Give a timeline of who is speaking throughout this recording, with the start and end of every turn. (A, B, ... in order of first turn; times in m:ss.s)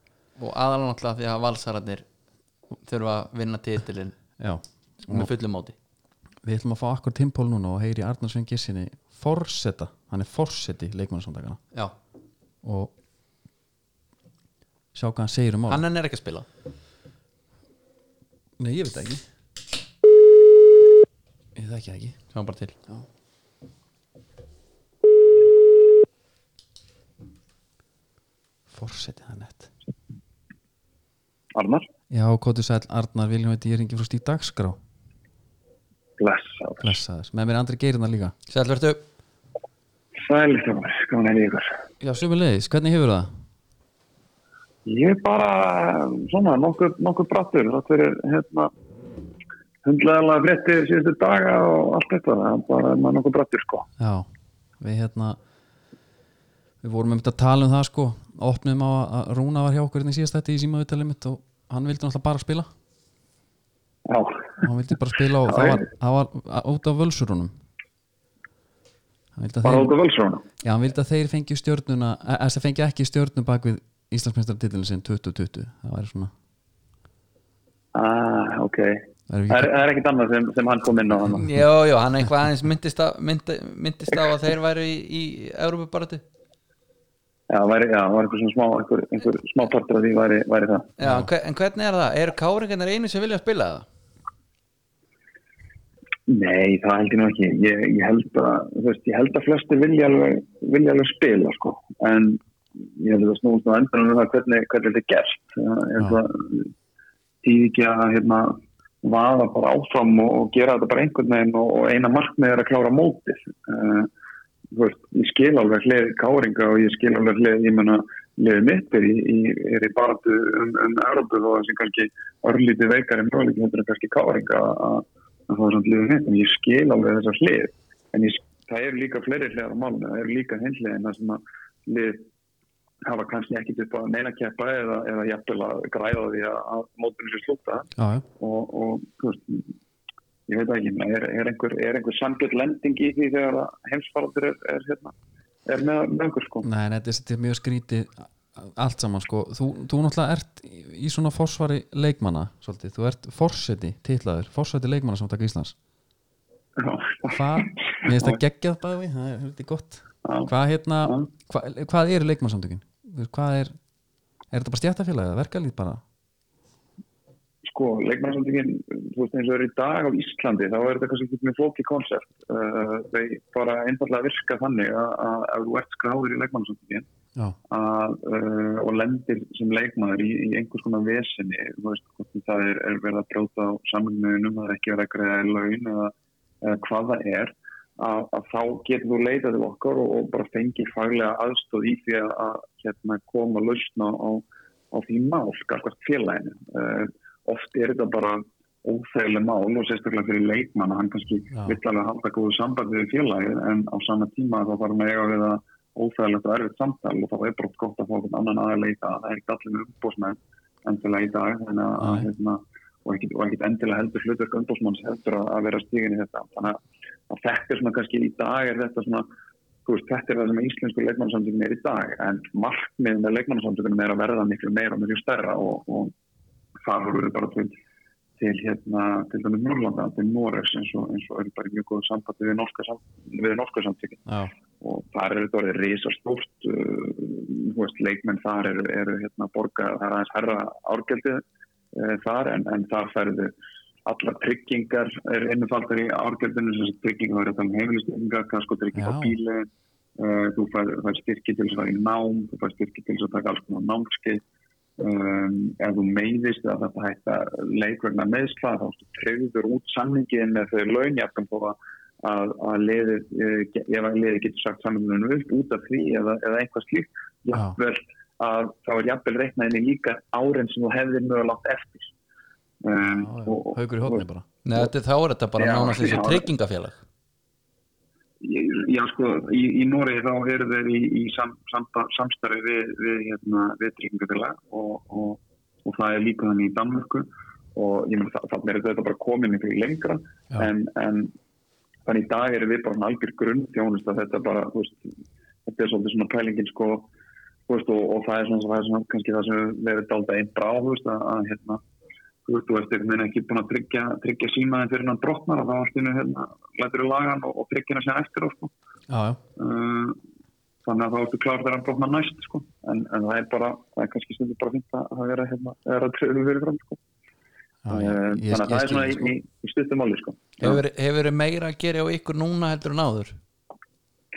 0:00.4-0:02.0 A
0:02.8-0:04.2 A
0:04.4-0:05.3 B
0:05.0-0:05.7 A
0:06.4-0:11.6 B
0:12.6-0:12.9 B
0:14.9-0:15.8 B
0:15.7-0:16.5 A
0:18.6-0:19.2 B
0:21.5-0:22.2 B
0:22.3-0:22.8 A
0:28.7-0:29.7 B
0:31.5-0:31.8 C
0:32.1-0:34.8 B
0:36.2-0:36.9 C
0:36.8-0:38.3 B
0:38.5-0:39.0 A
0:40.2-0:41.8 C
0:42.0-0:43.3 B
0:44.8-0:48.7 C
0:49.8-0:53.9 C
0:54.0-0:54.3 B
0:54.8-0:55.4 B
0:56.8-1:02.7 B
1:04.0-1:04.7 C
1:04.6-1:07.5 B
1:05.4-1:05.8 C
1:09.3-1:09.9 B
1:09.6-1:10.4 C
1:10.6-1:16.3 B
1:17.9-1:21.4 C
1:19.3-1:19.7 B
1:21.3-1:26.2 A
1:27.5-1:30.9 C
1:31.0-1:33.8 A
1:31.0-1:31.3 B
1:36.3-1:46.7 C
1:47.4-1:54.1 C
1:54.7-2:12.3 C
2:13.0-2:19.7 C
2:18.0-2:18.2 B
2:20.5-2:25.1 C
2:25.6-2:26.7 C
2:26.6-2:35.7 B
2:36.8-2:38.4 C
2:37.3-2:43.7 B
2:40.2-2:40.5 C
2:41.0-2:41.3 C
2:44.5-2:46.0 B
2:47.6-2:57.0 C
2:57.7-3:36.8 C
3:32.0-3:32.3 B
3:37.3-3:39.2 C
3:39.8-3:46.1 C
3:46.8-3:47.7 C
3:48.4-3:54.2 C
3:54.3-3:54.5 B
3:54.8-4:01.4 C
4:01.9-4:03.5 C
4:04.0-4:14.4 C
4:08.9-4:09.4 B
4:15.0-4:32.1 C
4:32.8-4:34.2 C
4:33.0-4:34.4 B
4:34.6-4:37.0 A
4:35.6-4:36.4 C
4:38.4-4:51.3 C
4:52.0-4:55.0 C
4:55.6-4:57.1 C
4:57.7-5:01.8 C
5:02.4-5:08.7 C
5:09.1-5:09.4 B
5:09.6-5:10.2 C
5:10.8-5:17.0 C
5:17.8-5:19.3 B
5:17.9-5:20.8 C
5:20.6-5:23.4 A